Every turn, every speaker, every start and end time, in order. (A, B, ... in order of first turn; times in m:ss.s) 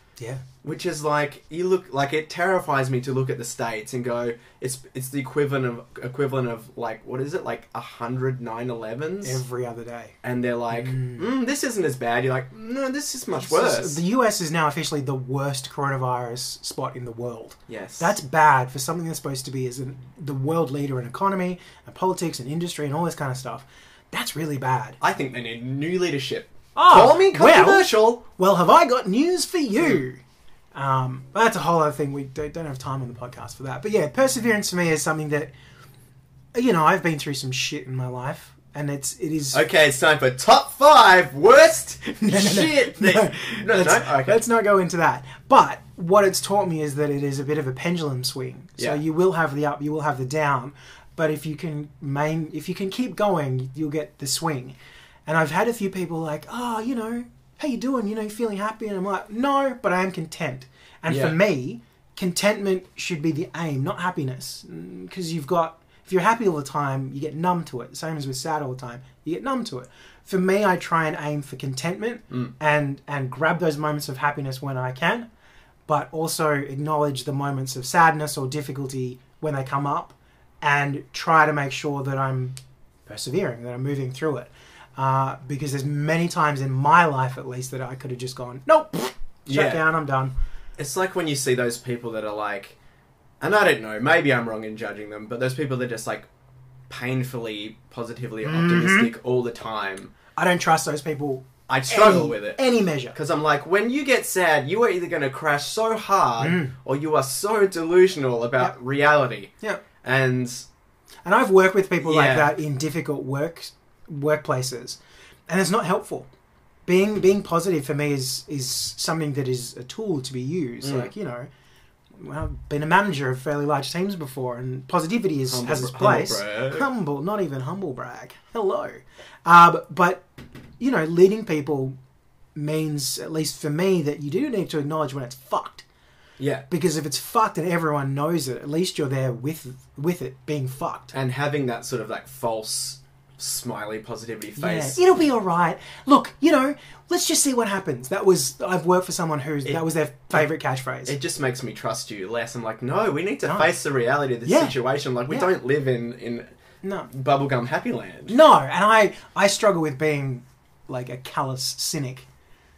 0:00.2-0:00.4 A
0:00.6-0:09.4 B
0:09.2-0:10.2 A
0:10.2-0:14.0 B
0:10.7-0:11.3 A
0:13.4-0:25.0 A
0:17.7-0:18.1 B
0:25.0-0:28.2 B
0:26.7-0:30.2 A
0:30.7-0:35.5 A
0:36.5-0:39.6 A
0:39.5-0:44.4 B
0:42.2-1:15.3 A
1:01.1-1:01.4 B
1:15.9-1:30.3 A
1:29.4-1:29.8 B
1:30.8-1:32.8 B
1:33.4-1:36.3 B
1:36.9-1:40.1 B
1:38.4-1:39.1 A
1:40.4-1:43.2 A
1:41.7-1:49.5 B
1:46.4-1:46.7 A
1:50.0-1:50.7 B
1:51.2-1:56.3 A
1:52.0-1:52.6 B
1:56.8-2:01.5 A
2:00.8-2:01.1 B
2:02.2-2:10.2 A
2:05.5-2:06.8 B
2:10.8-2:11.9 A
2:12.5-2:15.8 A
2:16.4-2:16.6 B
2:16.7-2:21.1 A
2:21.1-2:25.0 B
2:24.6-2:31.1 A
2:31.0-2:36.5 B
2:33.4-2:33.7 A
2:34.4-2:34.8 A
2:36.8-2:37.1 A
2:37.1-2:38.4 B
2:38.3-2:42.3 A